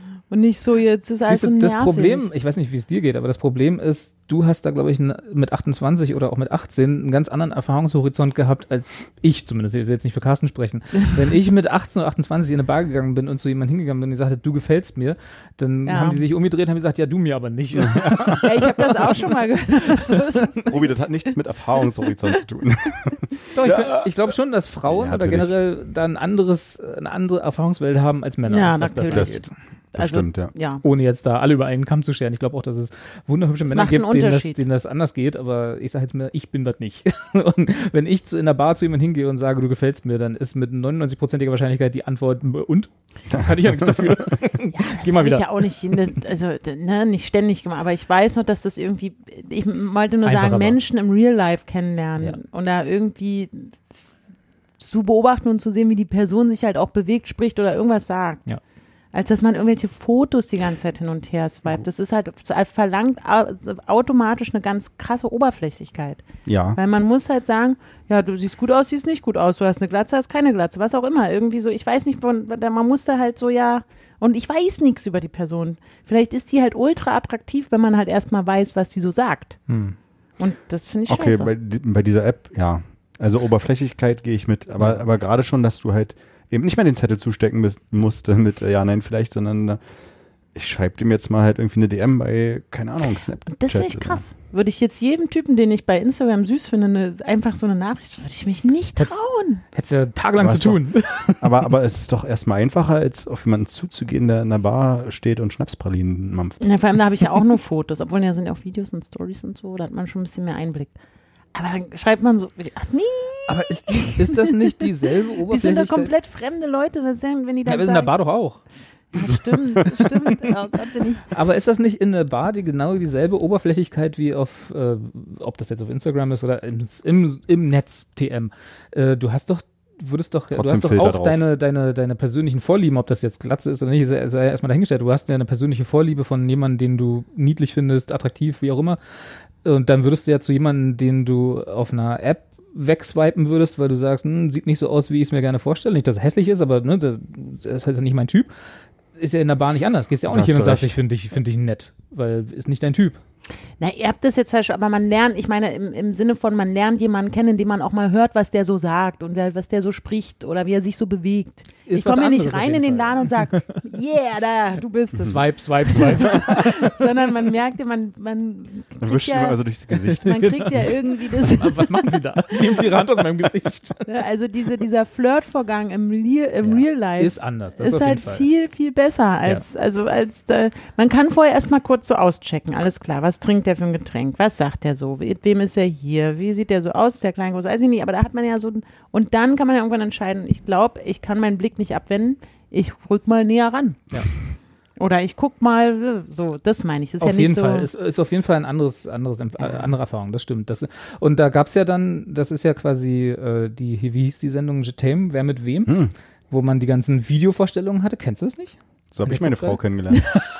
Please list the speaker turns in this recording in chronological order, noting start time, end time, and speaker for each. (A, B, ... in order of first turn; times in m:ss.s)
0:00.3-0:02.3 A
0:01.3-0:19.3 B
0:15.9-0:16.2 A
0:17.9-0:18.4 C
0:18.4-0:20.8 A
0:20.7-0:24.1 C
0:23.5-0:29.5 B
0:24.8-0:25.5 C
0:28.5-0:30.8 A
0:29.1-0:29.4 C
0:29.9-0:30.5 C
0:30.8-0:45.6 B
0:33.7-0:34.6 A
0:44.7-0:53.8 A
0:50.2-0:50.8 B
0:54.8-0:58.5 A
0:59.1-1:19.6 A
1:06.5-1:06.8 C
1:19.7-1:20.0 B
1:20.4-1:21.5 A
1:21.1-1:29.8 C
1:30.5-1:34.2 C
1:33.5-1:39.6 A
1:39.7-1:41.6 B
1:40.4-1:46.8 C
1:46.6-1:50.9 A
1:51.5-1:54.9 A
1:53.5-1:56.1 B
1:55.4-1:58.1 A
1:57.7-1:58.6 B
1:59.1-2:01.3 A
2:01.3-2:19.0 B
2:10.6-2:11.4 C
2:19.6-2:28.5 B
2:29.2-2:33.2 B
2:30.3-2:30.9 C
2:33.8-2:52.2 A
2:41.9-2:43.6 B
2:45.2-2:46.9 B
2:49.0-2:50.5 C
2:51.3-2:54.1 B
2:54.1-3:14.0 A
2:56.6-2:58.5 B
3:15.0-3:17.9 A
3:17.2-3:29.8 B
3:25.9-3:26.1 C
3:29.1-3:30.3 C